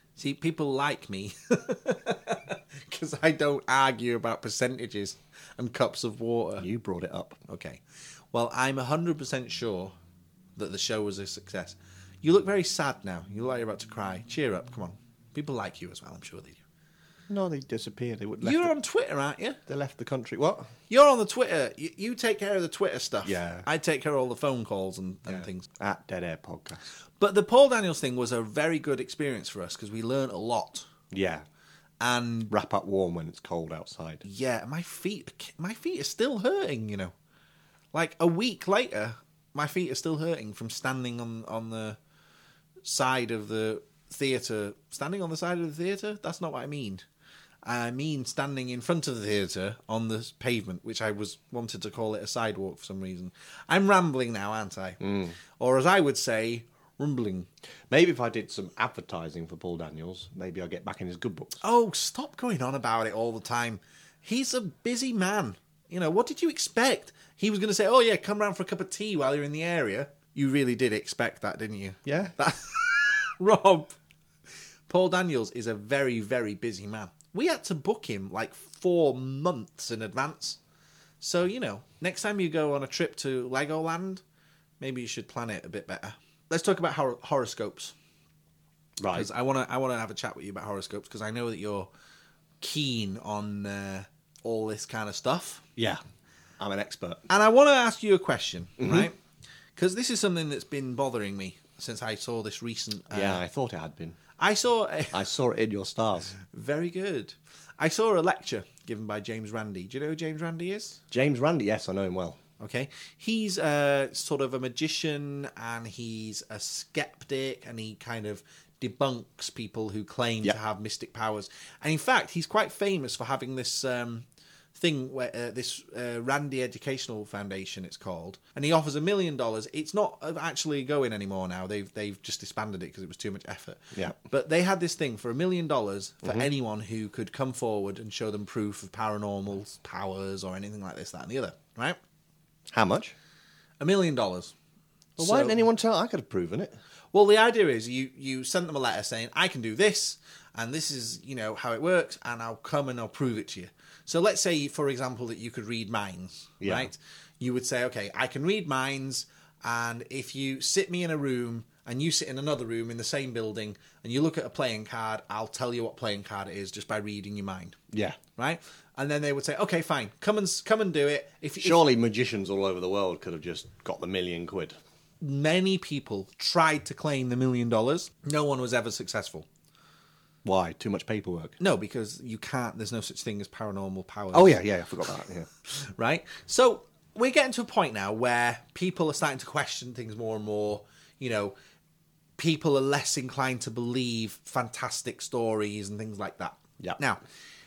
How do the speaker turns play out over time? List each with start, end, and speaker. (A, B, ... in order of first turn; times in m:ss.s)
0:00.2-0:06.7 A
0:06.6-0:07.4 B
0:07.5-0:09.9 A
0:10.6-0:16.6 A
0:17.3-0:18.7 B
0:18.4-0:19.6 A
0:19.7-0:20.7 B
0:20.9-0:25.7 A
0:23.2-0:23.7 B
0:25.3-0:26.9 B
0:27.2-0:30.9 A
0:31.1-0:31.4 B
0:32.0-0:32.5 A
0:32.5-0:34.2 B
0:34.2-0:37.1 A
0:37.9-0:42.0 A
0:42.8-0:47.0 A
0:47.6-0:57.5 A
0:55.0-0:55.4 B
0:57.9-1:01.6 B
1:01.6-1:14.0 A
1:12.0-1:12.3 B
1:14.9-1:20.6 A
1:21.2-1:24.2 A
1:24.8-1:27.9 A
1:29.0-1:29.3 B
1:29.1-1:31.9 A
1:32.6-1:35.6 A
1:35.8-1:36.0 B
1:36.6-1:37.2 B
1:37.3-1:39.2 A
1:38.8-1:39.1 B
1:39.8-1:43.4 A
1:43.1-1:44.2 B
1:44.4-1:45.2 A
1:45.1-1:46.3 B
1:46.4-1:51.0 A
1:51.1-1:52.4 B
1:52.6-2:22.0 A
2:13.9-2:14.2 B
2:16.2-2:16.5 B
2:22.7-2:23.2 B
2:23.8-2:24.5 A
2:25.2-2:25.6 A
2:25.2-2:26.8 B
2:27.1-2:47.8 A
2:36.6-2:36.9 B
2:47.9-2:48.2 B
2:48.4-2:51.8 A
2:51.6-2:54.8 B
2:55.2-2:59.5 A
3:00.4-3:01.6 B
3:01.6-3:04.6 A
3:04.3-3:05.5 B
3:05.7-3:11.5 A
3:12.4-3:17.2 A